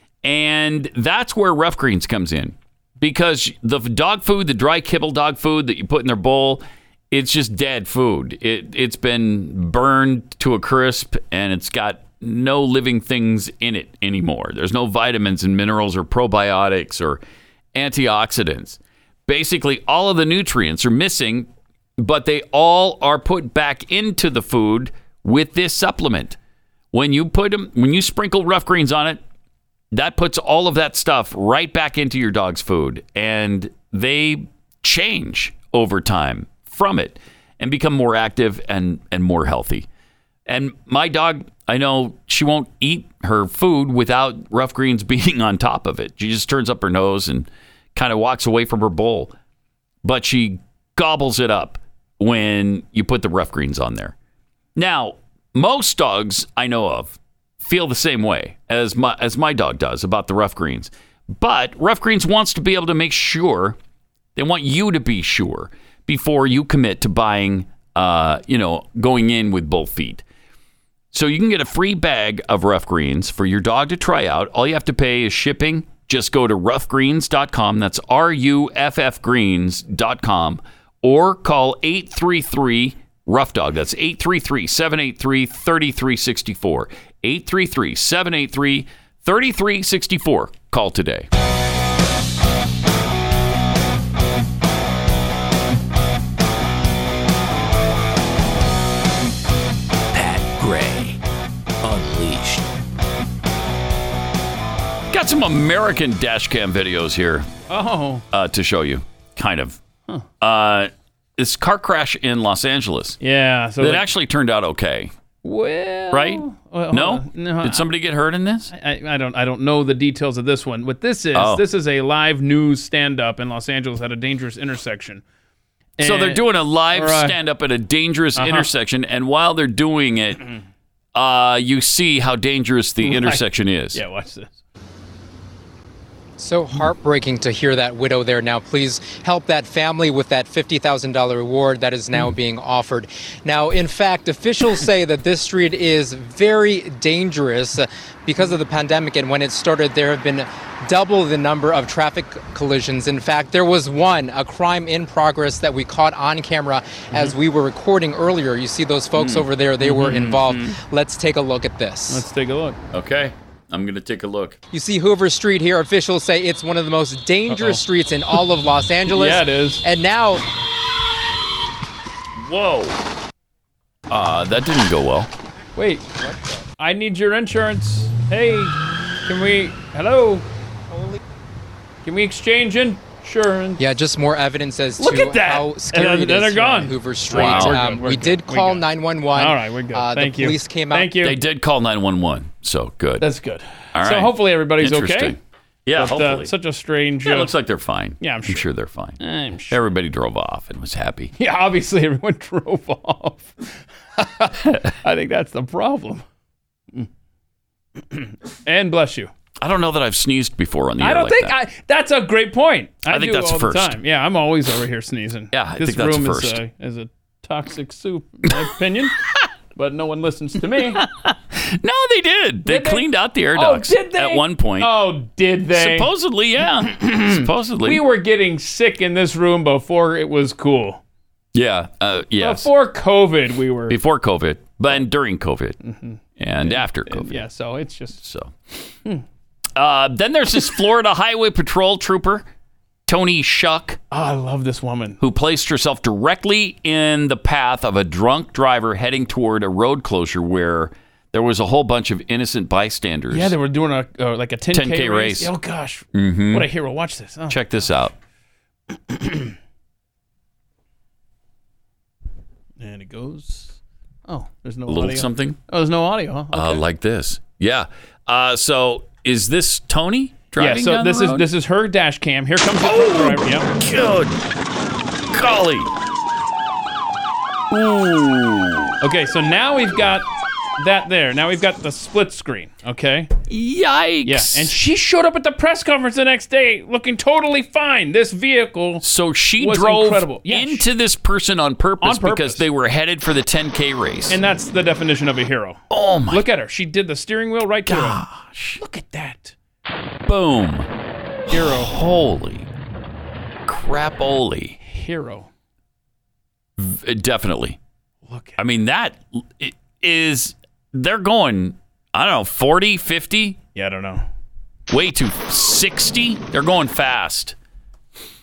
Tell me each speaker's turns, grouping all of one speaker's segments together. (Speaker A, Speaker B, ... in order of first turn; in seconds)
Speaker A: 0.2-17.2, 17.7-26.4, 26.9-29.2, 29.9-39.9, 40.5-49.3, 50.0-54.1, 54.8-63.8, 64.4-70.2, 71.1-91.3, 105.1-107.5, 108.3-109.8, 110.4-113.2, 113.8-115.1, 116.1-118.7, 121.3-121.7, 126.0-130.5, 131.1-134.0, 159.2-159.5, 160.3-160.8, 162.9-164.6, 172.4-173.0, 174.1-175.3, 187.3-188.0, 191.2-193.3, 193.9-196.5, 197.2-201.3, 209.6-211.6, 213.1-214.0, 215.5-216.6, 220.7-225.1, 225.7-228.0, 231.5-232.7, 233.9-235.8, 236.4-237.4, 238.2-238.6, 239.8-242.5, 243.1-244.0, 245.2-253.5, 254.7-255.5, 256.1-256.7, 257.5-258.2, 264.9-265.6, 266.5-271.5, 272.8-274.4, 275.3-275.9, 277.7-279.0, 283.5-284.7, 289.0-294.4, 295.9-296.5, 297.9-298.8, 300.3-300.9, 301.5-302.7, 303.7-304.8, 306.8-307.8, 308.6-313.6, 314.9-317.6
Speaker B: 100.1-101.2, 101.8-102.7
Speaker C: 107.7-108.2, 113.2-114.1, 115.4-117.9, 118.7-125.2, 126.0-127.4, 128.4-128.7, 133.0-134.5, 159.8-160.4, 162.1-162.8, 167.5-167.8, 169.1-169.8, 175.8-178.8, 179.3-180.5, 182.0-183.8, 185.0-191.4, 193.2-195.4, 195.9-197.5, 198.2-198.7, 199.2-199.8, 201.4-206.2, 208.1-209.3, 211.0-219.2, 219.8-221.0, 222.7-226.1, 226.9-231.0, 232.4-234.0, 235.8-238.2, 244.1-245.2, 253.3-257.8, 259.1-259.5, 262.8-266.8, 270.6-273.7, 279.0-283.3, 284.2-289.0, 289.6-290.9, 292.0-292.6, 294.3-298.2, 298.8-299.5, 301.5-302.0, 304.8-305.5, 308.3-308.6, 313.8-314.2
Speaker D: 136.4-162.3, 164.7-170.4, 183.8-191.2